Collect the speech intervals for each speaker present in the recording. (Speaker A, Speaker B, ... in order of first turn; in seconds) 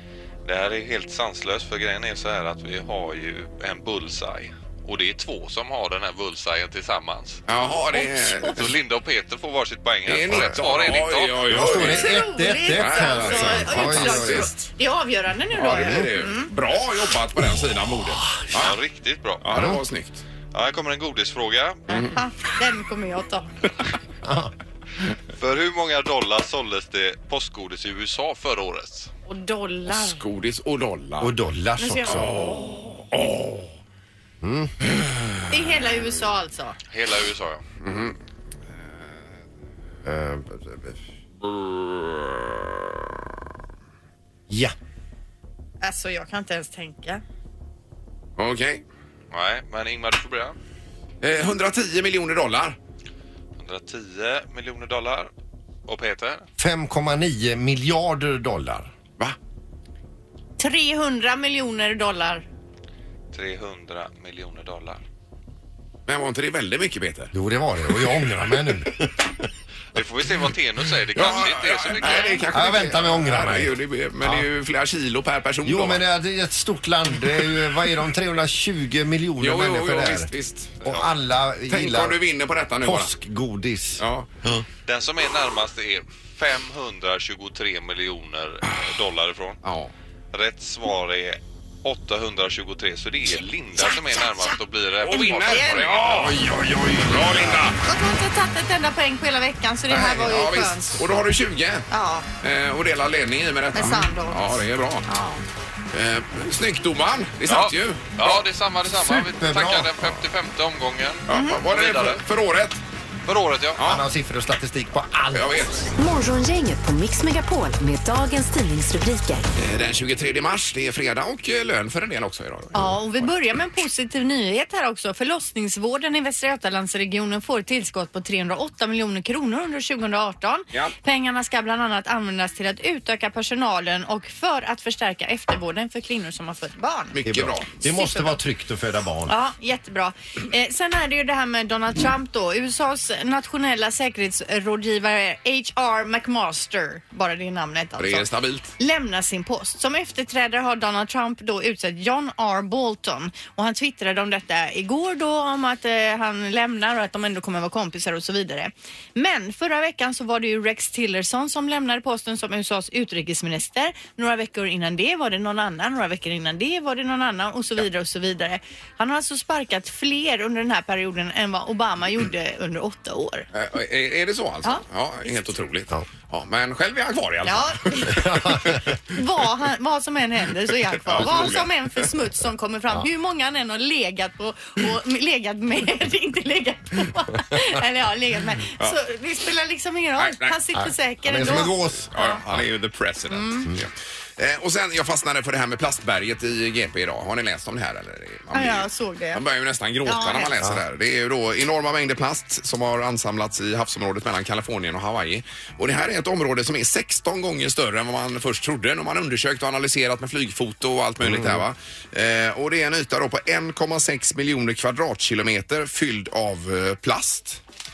Speaker A: 0.4-7.4, 8.4-11.5, 18.6-19.4, 20.5-21.8, 25.4-29.1, 36.9-37.6, 49.3-50.5, 53.6-55.3, 55.9-56.5, 63.3-65.0, 69.9-72.3, 84.8-89.6, 90.3-96.4, 107.5-112.2, 113.2-113.9
Speaker B: 7.5-8.7, 10.0-12.1, 12.7-14.6, 15.5-18.8, 19.4-20.2, 29.9-31.3, 32.0-33.7, 35.0-35.3, 37.8-38.2, 41.5-42.4, 48.4-48.8, 51.2-52.8, 66.1-67.3, 68.0-68.4, 71.1-76.0, 79.4-80.9, 81.7-83.1, 84.0-84.3, 89.6-89.9, 95.0-97.8, 99.9-101.9, 102.4-105.0, 105.9-108.4, 111.3-112.8, 115.3-115.9, 119.5-123.0, 137.1-137.7, 148.0-148.7, 173.5-178.2, 181.1-181.7, 190.2-190.6, 191.4-217.6
Speaker C: 7.9-8.6, 11.8-16.5, 21.9-23.5, 29.3-30.2, 31.8-32.6, 35.5-36.8, 45.8-47.2, 60.6-62.4, 72.0-72.4, 95.5-95.8, 97.8-101.0, 101.9-102.2, 103.7-105.4, 111.3-111.6, 122.7-137.2, 137.8-138.4, 139.3-148.3, 148.8-173.4, 174.6-175.4, 177.4-192.4, 193.3-193.7, 198.5-199.4, 200.0-200.5
Speaker D: 11.5-14.5, 15.7-16.0, 19.5-19.8, 24.2-24.5, 31.2-32.3, 34.4-34.7, 40.0-40.9, 44.5-44.7, 56.6-58.9, 67.3-69.1, 72.5-74.5, 75.6-80.3, 80.8-82.2, 82.8-84.0, 109.0-110.2, 113.8-115.7, 137.2-139.3, 178.1-178.9, 181.2-181.5, 190.7-192.6, 211.2-211.7
Speaker E: 116.0-119.5